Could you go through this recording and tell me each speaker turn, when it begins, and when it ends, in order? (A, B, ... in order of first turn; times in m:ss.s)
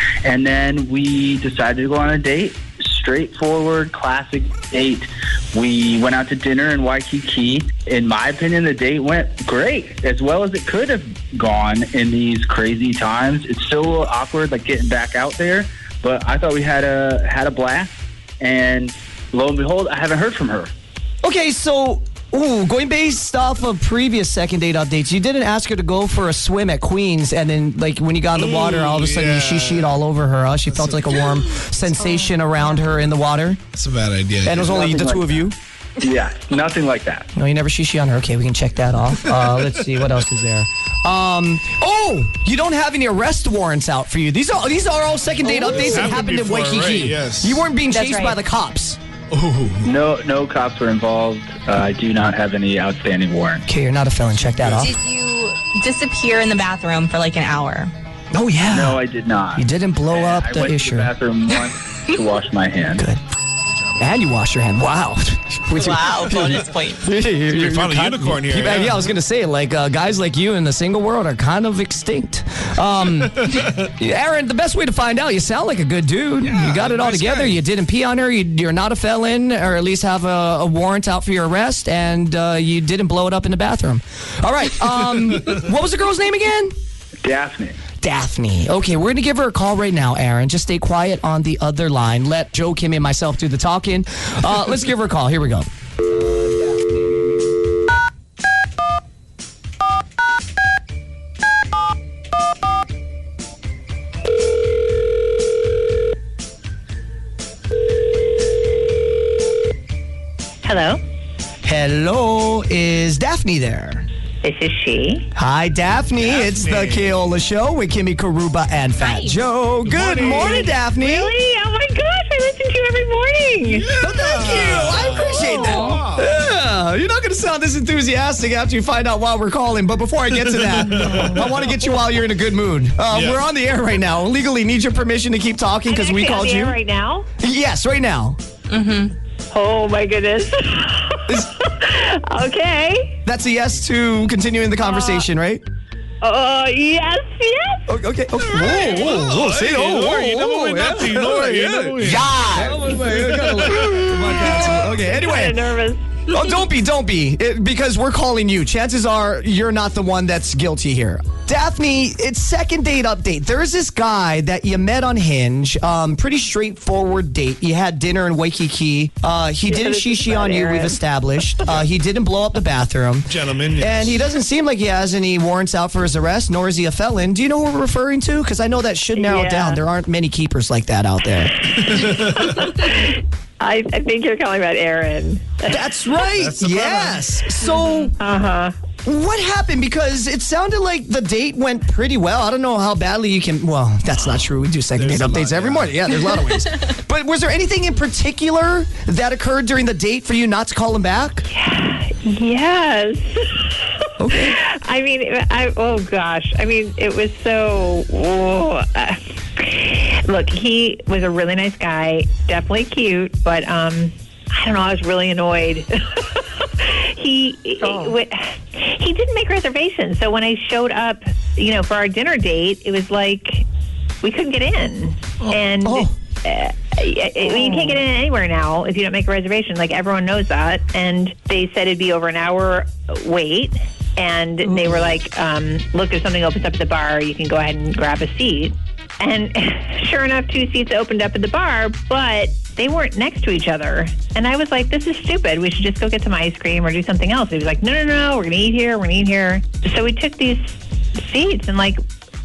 0:00.2-0:20.7 A
0:21.2-0:33.6 B
0:28.4-0:30.0 C
0:30.6-0:31.6 C
0:33.7-0:34.7 C
0:34.4-0:35.5 B
0:34.6-0:35.5 A
0:36.0-0:37.3 A
0:37.3-0:49.0 B
0:45.4-0:45.9 D
0:45.6-0:47.6 C
0:47.9-0:48.4 D
0:49.3-0:49.9 C
0:49.8-0:53.6 A
0:53.7-0:54.9 B
0:54.3-0:54.9 C
0:54.8-0:57.9 D
0:58.3-0:59.0 B
0:58.7-1:03.0 A
0:59.5-1:01.1 B
1:04.0-1:26.7 B
1:05.7-1:07.1 D
1:07.5-1:09.0 C
1:16.4-1:17.6 C
1:27.2-1:27.8 A
1:28.0-1:37.3 B
1:50.6-1:51.0 E
1:51.6-1:54.0 B
1:54.4-1:55.3 E
1:55.3-2:01.3 B
1:56.2-1:57.3 C
1:59.0-1:59.4 D
1:59.8-2:00.7 C
2:00.3-2:03.9 E
2:03.7-2:06.3 C
2:04.0-2:16.8 B
2:10.4-2:11.4 C
2:13.1-2:13.4 C
2:15.8-2:17.3 E
2:17.4-2:18.4 B
2:18.7-2:19.1 D
2:19.5-2:23.1 E
2:23.2-2:25.6 B
2:24.8-2:25.2 E
2:26.2-2:27.9 E
2:27.9-2:35.6 B
2:28.4-2:34.1 C
2:32.0-2:32.7 D
2:34.2-2:36.0 E
2:36.3-3:01.7 B
2:49.6-2:51.0 E
2:53.3-2:54.2 C
2:59.2-2:59.8 E
3:02.0-3:05.9 E
3:05.7-3:08.2 B
3:06.3-3:07.3 C
3:07.6-3:08.7 E
3:09.0-3:21.4 B
3:14.9-3:16.1 C
3:21.5-3:23.7 E
3:24.2-3:24.6 B
3:24.5-3:43.6 E
3:44.2-4:12.0 E
3:45.8-3:46.1 B